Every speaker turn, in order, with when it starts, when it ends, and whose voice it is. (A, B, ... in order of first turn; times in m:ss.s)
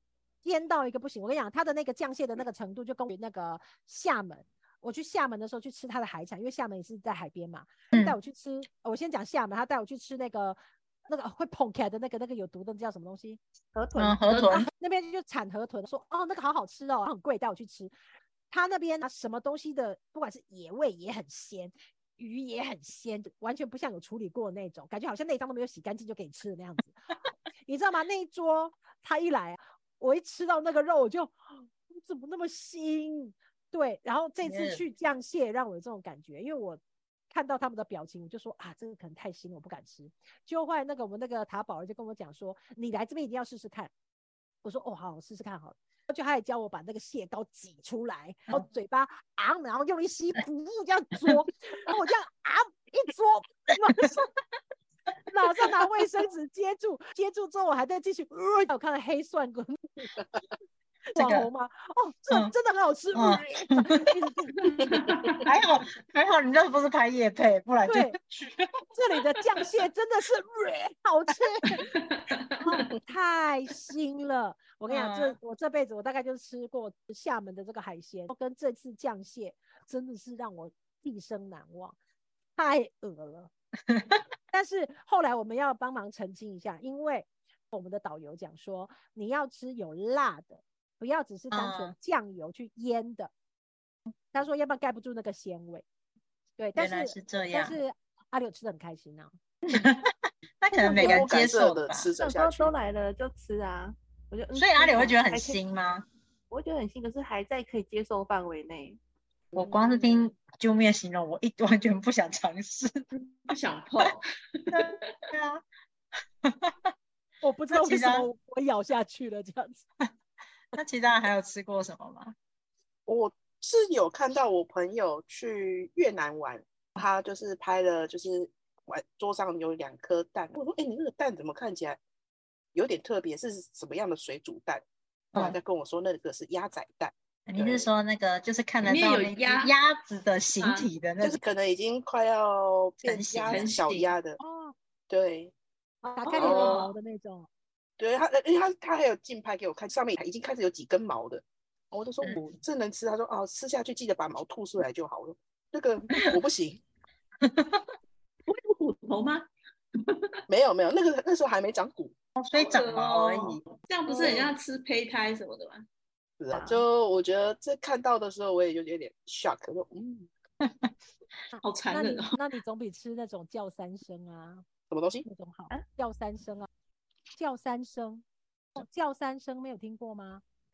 0:00.4-0:13.4 A
0:13.7-0:14.2 B
0:14.0-0:14.7 C
0:14.3-0:14.6 D
0:14.5-0:17.9 A
0:18.5-0:27.1 A
0:27.6-0:43.9 A
0:34.4-0:34.8 C
0:44.6-0:54.3 A
0:55.3-1:00.1 A
1:01.1-1:04.9 A
1:01.2-1:01.5 C
1:03.1-1:04.1 C
1:04.8-1:05.4 D
1:04.9-1:05.4 E
1:05.4-1:08.7 C
1:07.9-1:08.2 A
1:08.9-1:11.9 A
1:11.9-1:12.5 D
1:12.6-1:22.0 A
1:14.9-1:15.4 C
1:22.6-1:23.5 A
1:23.9-1:24.1 C
1:24.5-1:33.3 A
1:31.5-1:32.0 C
1:34.3-1:35.8 A
1:36.6-1:39.3 A
1:36.8-1:37.8 C
1:39.7-1:42.1 C
1:40.7-1:41.3 A
1:40.9-1:42.7 E
1:42.2-1:45.6 B
1:44.5-1:46.0 C
1:46.5-1:49.0 B
1:49.5-1:50.1 E
1:49.6-1:53.0 C
1:53.5-1:55.1 D
1:54.7-1:55.6 C
1:56.4-1:56.9 C
1:57.4-1:59.8 A
1:57.7-1:58.3 C
2:00.7-2:02.4 C
2:03.1-2:12.0 E
2:12.7-2:17.9 E
2:17.5-2:21.4 C
2:18.8-2:19.7 D
2:20.6-2:20.9 D
2:21.2-2:24.4 E
2:23.0-2:23.7 C
2:23.5-2:24.1 D
2:24.4-2:24.8 A
2:25.1-2:25.5 E
2:26.0-2:27.5 A
2:26.3-2:26.9 D
2:26.4-2:26.9 E
2:28.0-2:36.8 E
2:37.4-2:37.8 C
2:38.5-2:39.5 D
2:40.0-2:40.3 D
2:40.5-2:42.1 E
2:42.4-2:43.8 C
2:42.5-2:45.8 D
2:46.4-2:50.3 E
2:46.5-2:46.8 B
2:50.6-2:50.9 C
2:51.5-2:54.6 A
2:51.6-2:52.4 D
2:54.9-2:55.3 E
2:55.2-2:56.7 A
2:57.4-2:58.2 A
2:58.8-3:00.4 A